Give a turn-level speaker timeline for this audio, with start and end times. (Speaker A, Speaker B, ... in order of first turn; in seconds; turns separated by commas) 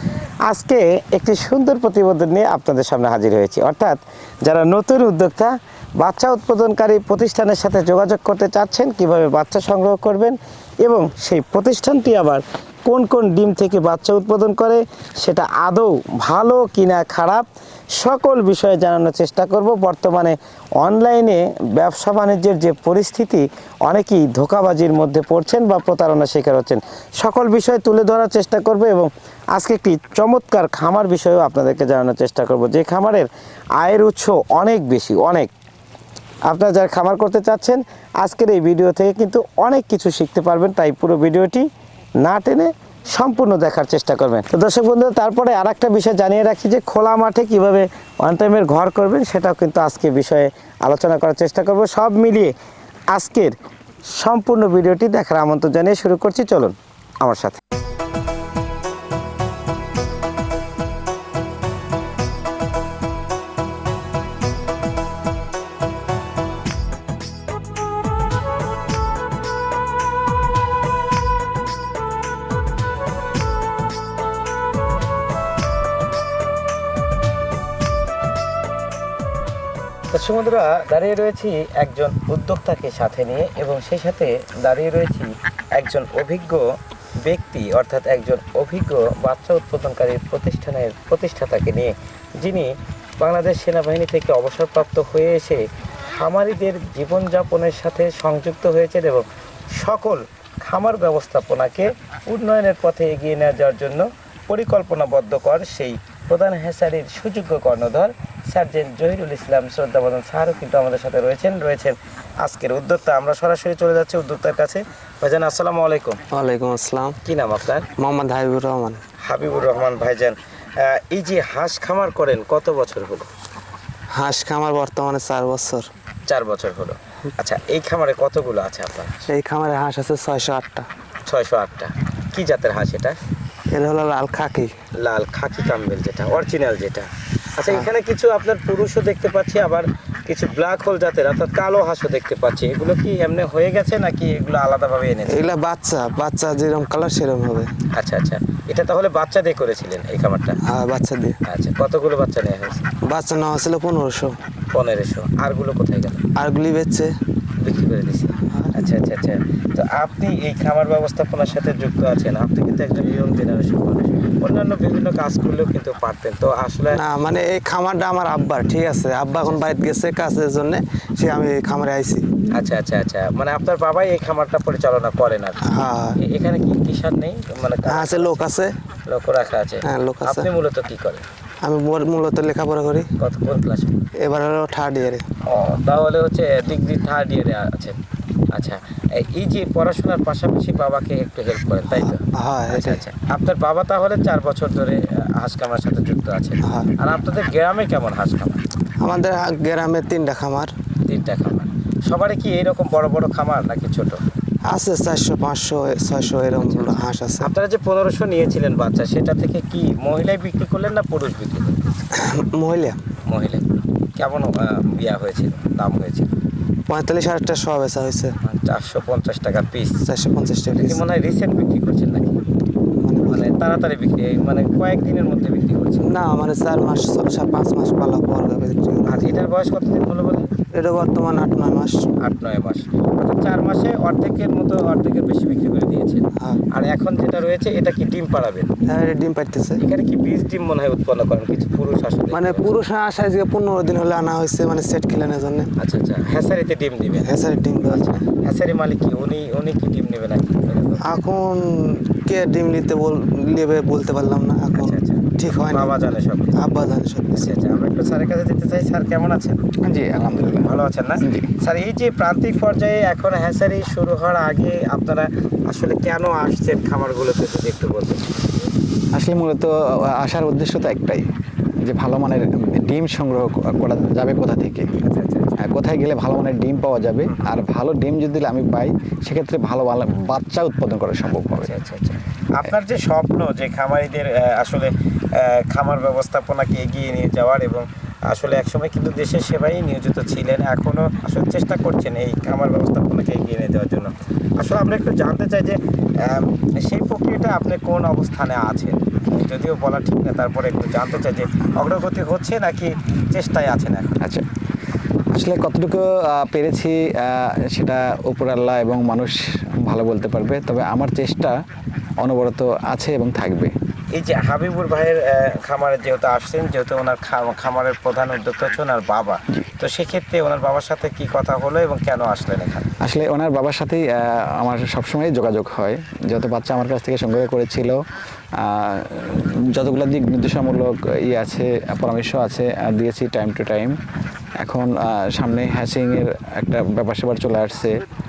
Speaker A: 0.4-35.5, Speaker A: 36.5-41.7, Speaker A: 42.2-52.5, Speaker A: 53.1-53.5, Speaker A: 54.1-57.6, Speaker A: 80.1-86.7, Speaker A: 87.2-116.2, Speaker B: 116.3-117.2, Speaker A: 117.2-117.9, Speaker B: 118.0-119.0, Speaker A: 119.2-123.3, Speaker B: 124.1-125.9, Speaker A: 126.3-129.2, Speaker B: 129.3-130.9, Speaker A: 131.3-133.1, Speaker B: 133.7-134.7, Speaker A: 135.0-145.5, Speaker B: 145.3-147.7, Speaker A: 147.9-150.6, Speaker B: 150.6-151.4, Speaker A: 151.4-152.9, Speaker B: 153.0-154.4, Speaker A: 154.7-156.2, Speaker B: 156.3-157.1, Speaker A: 157.6-167.0, Speaker B: 158.4-158.7, Speaker B: 166.9-172.3, Speaker A: 169.4-169.7, Speaker A: 172.5-175.6, Speaker B: 175.6-176.2, Speaker A: 176.2-178.5, Speaker B: 177.8-178.8, Speaker A: 179.1-181.2, Speaker B: 179.8-180.5, Speaker B: 181.6-183.1, Speaker A: 183.2-183.9, Speaker B: 184.2-185.2, Speaker A: 185.4-188.0, Speaker A: 188.5-198.6, Speaker B: 191.9-193.0, Speaker B: 196.6-196.9, Speaker B: 199.0-200.7, Speaker A: 201.0-204.2, Speaker B: 204.7-207.5, Speaker A: 206.6-211.8, Speaker B: 212.1-213.0, Speaker A: 213.3-216.3, Speaker B: 216.9-218.3, Speaker A: 218.4-220.0, Speaker B: 220.0-221.0, Speaker A: 220.8-222.4, Speaker B: 222.9-223.4, Speaker A: 223.2-226.1, Speaker B: 226.0-229.3, Speaker A: 229.0-230.5, Speaker B: 230.7-232.0, Speaker A: 232.2-238.7, Speaker B: 236.4-236.6, Speaker B: 238.8-239.8, Speaker A: 239.8-242.8, Speaker B: 242.3-245.7, Speaker A: 245.8-251.1, Speaker B: 247.2-248.2, Speaker B: 251.0-255.9, Speaker A: 254.7-256.6, Speaker B: 256.5-257.5, Speaker A: 257.4-259.6, Speaker C: 259.8-261.5, Speaker A: 260.6-268.3, Speaker C: 269.1-271.2, Speaker C: 271.8-274.9, Speaker A: 275.0-275.6, Speaker C: 275.6-281.7, Speaker A: 281.5-304.2, Speaker C: 305.3-311.6, Speaker C: 312.2-313.7, Speaker A: 314.1-322.9, Speaker C: 323.0-328.0, Speaker C: 328.6-334.0, Speaker C: 334.6-338.0